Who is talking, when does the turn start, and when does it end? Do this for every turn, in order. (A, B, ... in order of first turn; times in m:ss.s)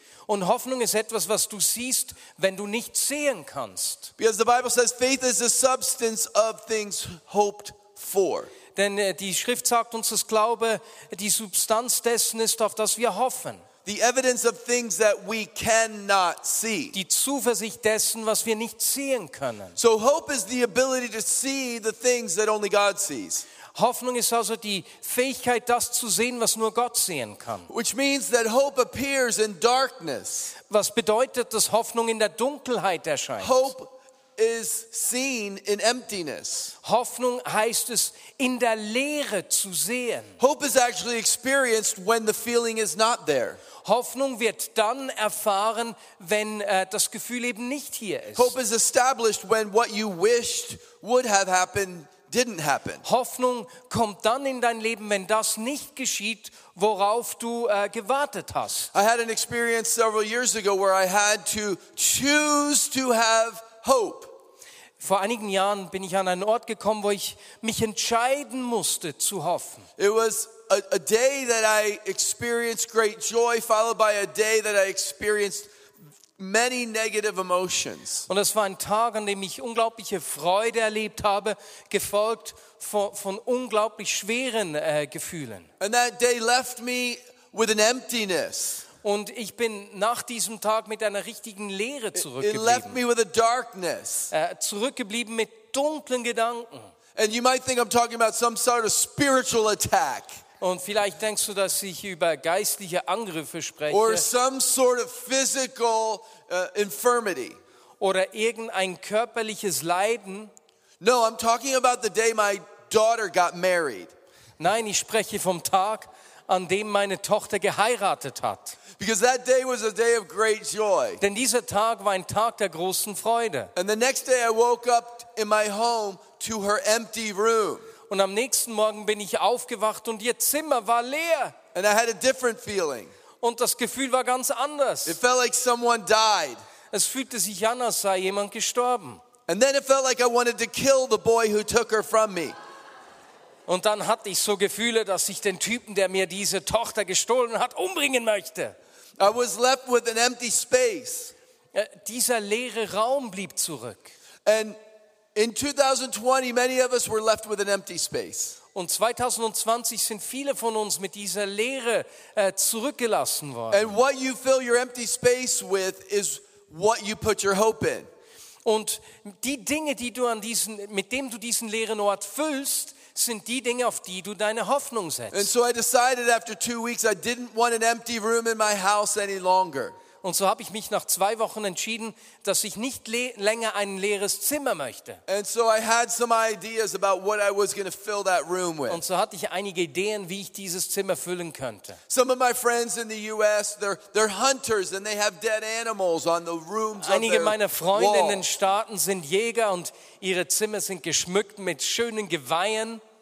0:00.3-0:04.1 A
0:04.2-0:08.5 B
0:08.8-0:13.7 A
0:13.8-0:17.0 B
0:16.9-0:19.8 A
0:19.8-0:23.5 B
0:23.7-0:27.7 A
0:27.7-0:30.6 B
0:30.6-0:33.7 A
0:33.4-0:36.8 B
0:36.8-0:40.4 A
0:40.4-0:43.6 B
0:43.8-0:48.6 A
0:48.4-0:53.0 B
0:53.0-0:58.9 A
0:58.9-1:04.3 B
1:05.0-1:09.9 A
1:10.0-1:15.7 B
1:16.4-1:18.3 B
1:18.3-1:25.7 A
1:25.8-1:28.9 B
1:29.0-1:33.0 A
1:32.2-1:34.3 B
1:34.3-1:36.9 A
1:37.2-1:40.4 B
1:40.6-1:44.3 A
1:43.9-1:47.6 B
1:48.0-1:50.5 A
1:51.0-1:54.1 B
1:54.6-1:58.8 A
1:59.0-2:01.2 B
2:01.2-2:03.7 A
2:03.8-2:07.9 B
2:08.1-2:11.6 A
2:11.7-2:13.1 B
2:13.4-2:15.2 A
2:15.0-2:16.6 B
2:16.9-2:19.2 A
2:19.5-2:22.6 B
2:23.7-2:28.8 A
2:29.2-2:31.3 B
2:31.7-2:34.1 A
2:34.4-2:34.8 B
2:35.4-2:38.6 B
2:38.7-2:44.0 A
2:43.7-2:48.1 B
2:48.6-2:55.5 A
2:55.3-3:00.0 B
3:00.2-3:05.2 A
3:05.3-3:09.0 B
3:08.9-3:12.0 A
3:12.1-3:18.5 B
3:17.0-3:23.0 A